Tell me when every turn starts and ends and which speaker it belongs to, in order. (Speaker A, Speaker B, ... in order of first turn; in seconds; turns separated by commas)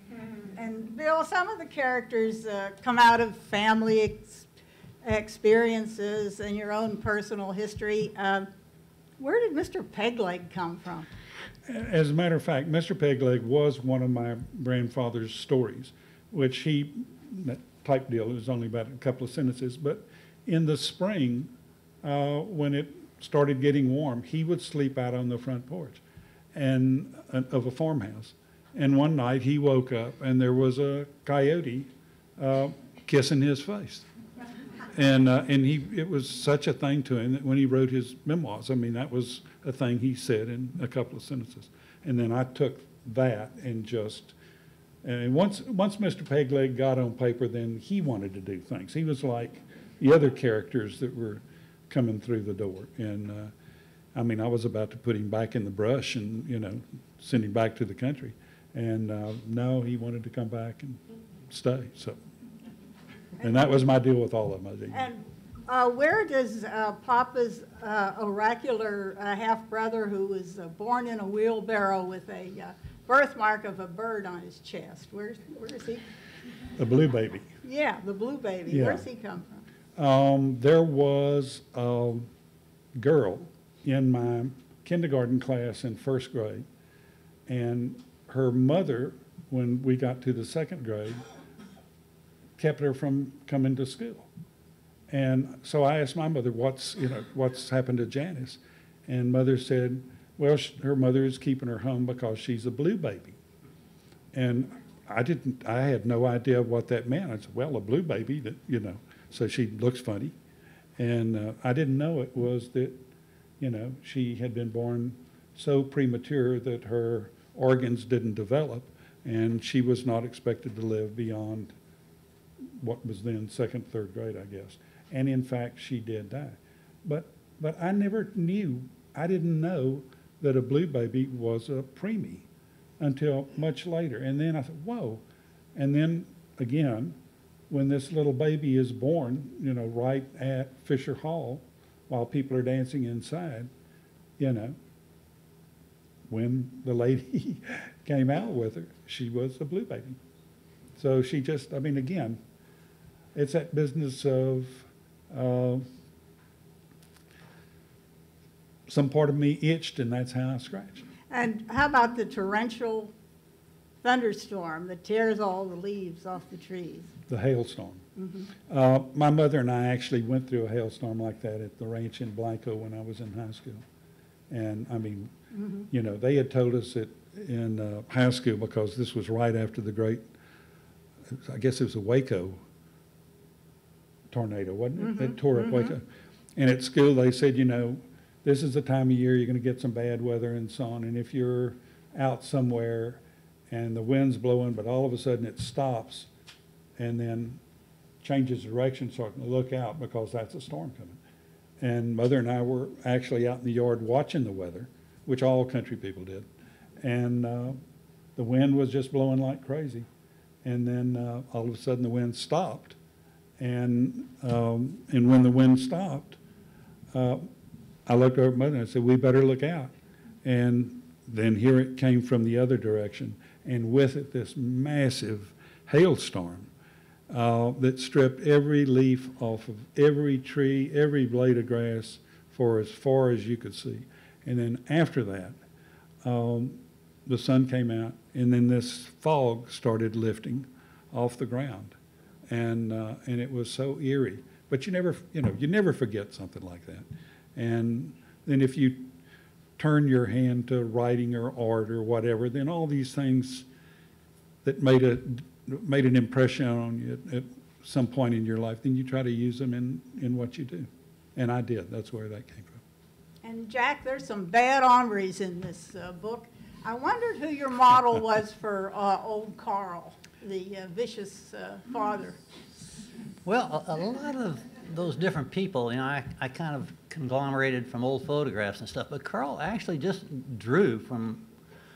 Speaker A: 0.6-4.5, Speaker A: 5.0-8.5, Speaker A: 9.2-11.1, Speaker B: 11.7-21.5, Speaker B: 22.0-26.0, Speaker B: 26.5-34.1, Speaker B: 34.9-44.4, Speaker B: 45.0-53.5, Speaker B: 54.1-62.2, Speaker B: 63.4-65.0, Speaker A: 64.9-76.0, Speaker B: 76.8-77.5, Speaker A: 77.6-79.6, Speaker B: 78.7-79.1, Speaker B: 80.0-82.3, Speaker B: 83.0-86.7, Speaker B: 87.5-91.2, Speaker B: 92.6-94.3, Speaker B: 95.1-103.4, Speaker B: 104.3-110.3, Speaker B: 111.0-113.0, Speaker B: 113.6-121.7, Speaker B: 122.8-132.5, Speaker B: 133.0-135.2, Speaker B: 135.8-137.2, Speaker B: 137.7-143.7, Speaker B: 144.4-144.8, Speaker B: 146.3-150.2, Speaker B: 151.0-152.4, Speaker B: 153.3-155.9, Speaker B: 158.9-161.0, Speaker A: 161.3-163.1, Speaker A: 164.0-167.1, Speaker B: 167.3-168.0, Speaker A: 168.2-168.5, Speaker B: 168.7-173.8, Speaker B: 174.5-175.3, Speaker A: 175.6-175.9, Speaker B: 175.9-180.3, Speaker B: 181.4-182.6, Speaker B: 184.3-186.1, Speaker A: 185.0-185.9, Speaker B: 186.6-196.3, Speaker B: 197.0-197.6, Speaker B: 198.2-201.2, Speaker B: 201.8-206.5, Speaker B: 207.0-207.8, Speaker B: 208.4-210.1, Speaker B: 210.6-213.0, Speaker B: 213.6-216.4, Speaker B: 217.1-217.5, Speaker B: 218.1-226.7, Speaker B: 227.3-235.6, Speaker B: 236.2-242.0, Speaker B: 242.5-249.1, Speaker B: 249.8-253.7, Speaker B: 254.6-262.8, Speaker A: 263.4-272.4, Speaker C: 273.4-281.5